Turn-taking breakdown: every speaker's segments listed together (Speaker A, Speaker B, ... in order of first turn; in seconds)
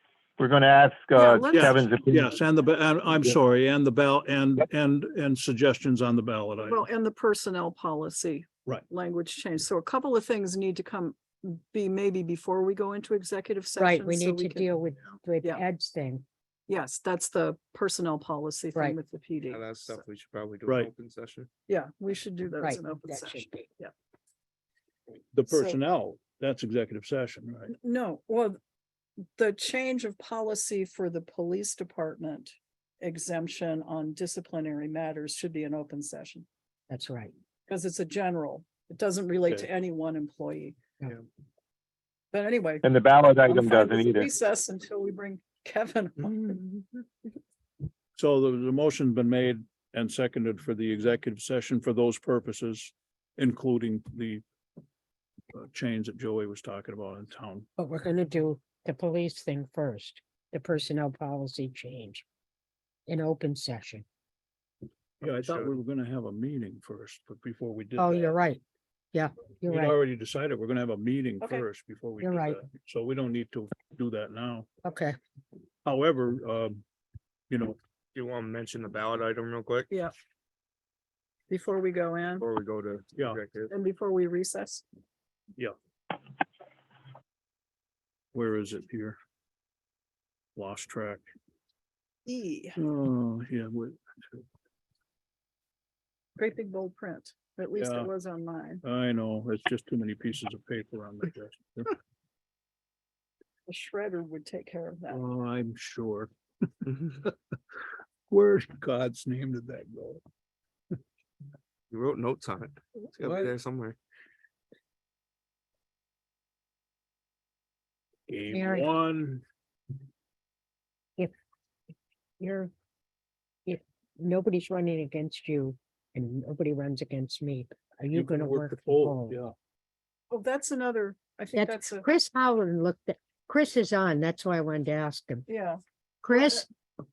Speaker A: 0.4-2.3, 42.8-44.3
Speaker B: 1.1-1.8, 6.6-14.7, 16.7-20.1, 21.7-23.9, 25.5-25.8, 27.7-28.6, 29.4-36.5, 37.7-40.8, 42.3-42.9, 43.5-47.0, 81.5-82.5, 83.7-84.8, 92.3-92.8, 96.4-98.8, 103.7-105.2, 130.3-132.1, 135.5-135.8, 136.3-136.6
Speaker C: 1.5-6.8, 25.3-27.7, 48.2-54.4, 55.5-57.7, 65.2-68.3, 69.7-74.7, 75.8-76.8, 77.5-77.8, 88.3-89.2, 90.6-91.2, 92.8-94.4, 97.8-98.1, 98.8-101.9, 105.1-106.3, 106.8-107.3, 108.3-110.2, 118.3-119.4, 128.1-129.5
Speaker D: 13.8-16.2, 22.6-23.7, 36.9-37.3, 57.8-62.2, 63.1-64.0, 68.0-68.6, 69.1-70.0, 72.2-72.6, 74.8-75.2, 118.5-118.9, 122.4-122.7, 123.7-129.4, 131.6-135.5, 136.2-136.7
Speaker E: 19.5-21.5, 78.1-79.9, 82.4-83.7, 111.9-114.0